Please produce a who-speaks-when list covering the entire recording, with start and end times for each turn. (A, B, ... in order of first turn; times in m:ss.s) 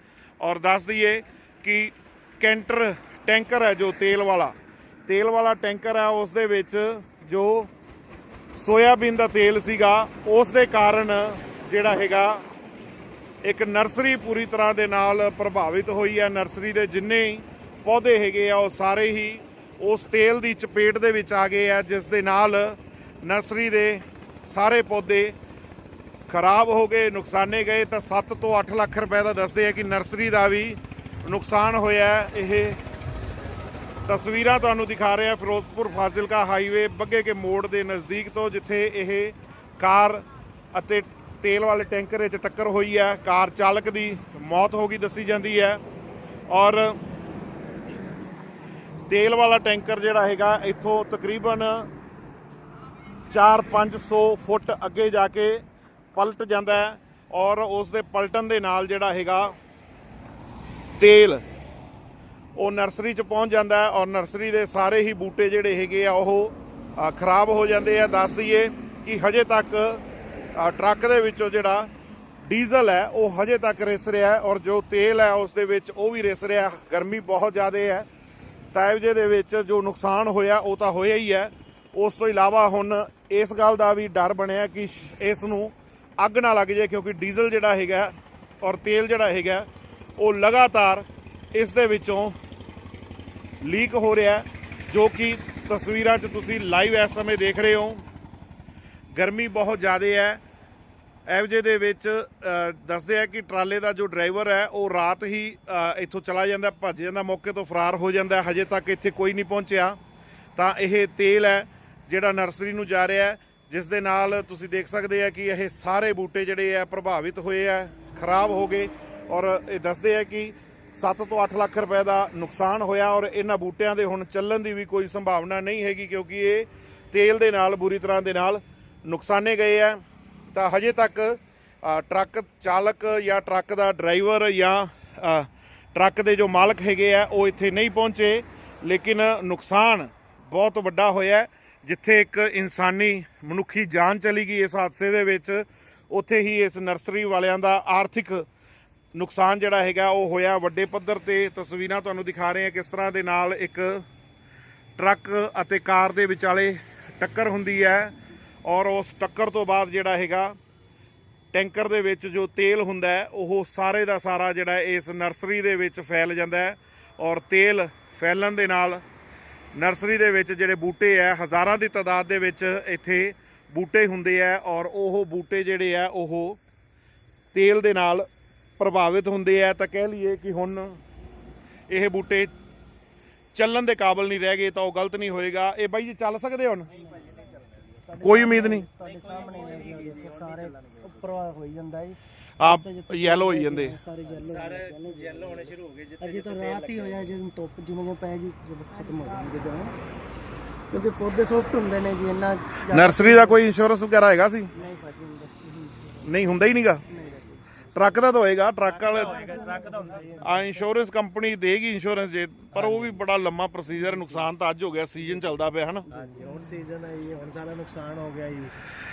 0:00.4-0:04.5 A
0:05.1-0:07.7 A
0:08.5-0:12.4 A
0:13.4-0:25.4 A
0:26.3-0:32.8 A
0:34.1-0:45.8 A
0:46.5-0:47.0 A
0:49.1-0:51.9 A
0:53.3-0:55.6 A
0:56.1-0:59.6 A
1:01.0-1:01.4 A
1:02.6-1:10.0 A
1:10.5-1:11.9 A
1:12.4-1:18.1 A
1:18.7-1:29.7 A
1:30.2-1:32.4 A
1:33.6-1:38.0 A
1:39.1-1:40.4 A
1:41.2-1:50.0 A
1:50.6-2:10.0 A
2:10.5-2:28.5 A
2:29.1-2:34.0 A
2:35.0-2:40.6 A
2:41.5-2:49.0 A
2:49.7-2:56.6 A
2:57.5-2:58.3 A
2:58.8-3:01.0 A
3:01.9-3:02.5 A
3:03.5-3:06.9 A
3:06.9-3:11.4 B
3:07.0-3:07.3 C
3:08.1-3:20.0 C
3:08.2-3:08.9 A
3:12.6-3:14.0 A
3:14.2-3:17.4 B
3:20.9-3:23.6 C
3:22.9-3:24.7 A
3:24.7-3:28.2 C
3:26.2-3:27.0 A
3:27.9-3:29.6 A
3:28.8-3:30.6 B
3:29.0-3:30.8 C
3:30.4-3:36.0 A
3:32.7-3:33.2 B
3:34.1-3:34.4 B
3:36.1-3:36.6 C
3:36.1-3:38.7 B